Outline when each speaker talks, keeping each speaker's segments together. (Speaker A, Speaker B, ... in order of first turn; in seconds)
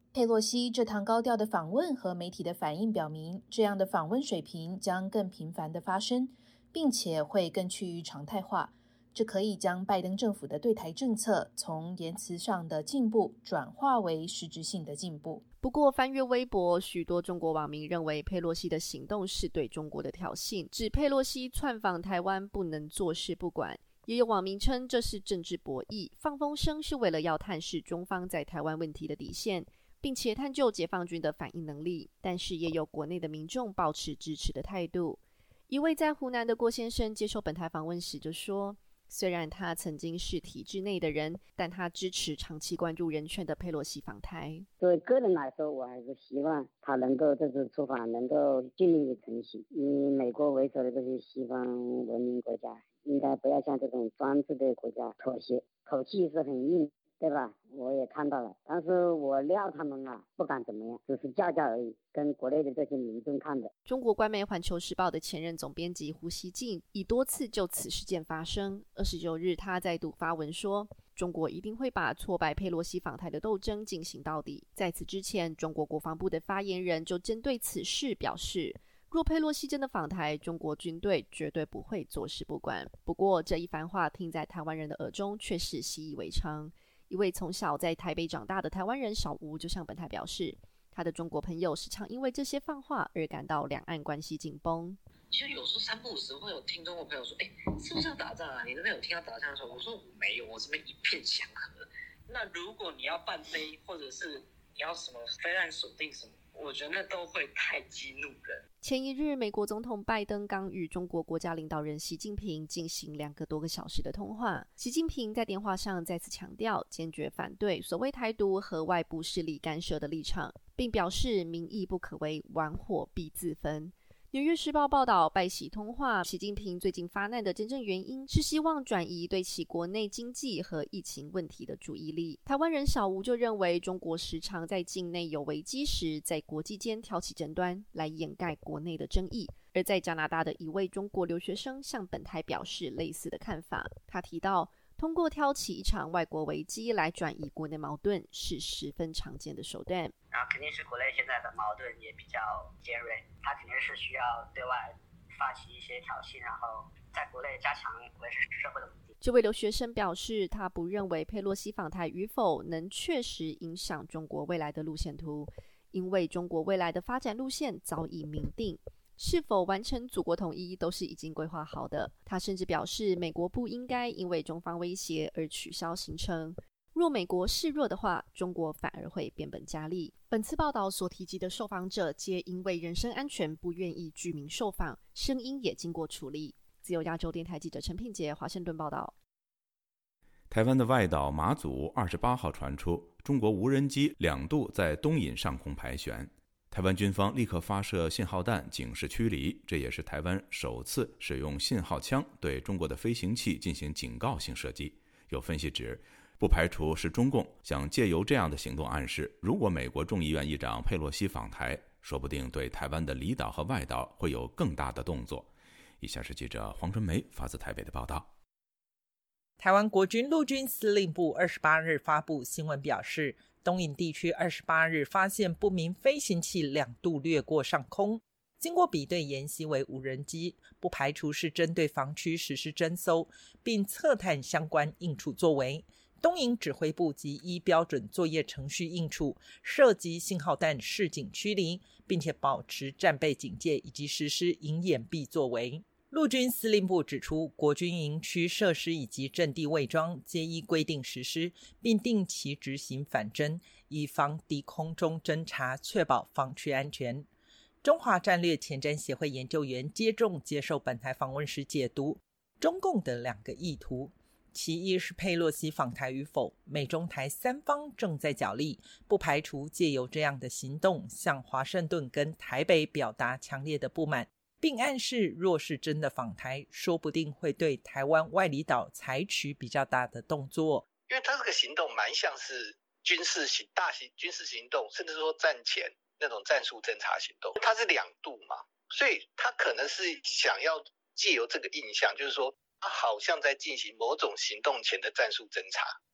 Speaker A: 0.1-15.4
Speaker B: 15.6-44.6, 63.9-95.0, 108.8-150.1, 159.2-189.1
Speaker C: 44.8-63.7
Speaker D: 95.3-108.6
Speaker E: 150.3-159.1
Speaker F: 190.5-218.3
Speaker G: 219.6-257.3, 257.8-280.8
Speaker H: 281.1-295.9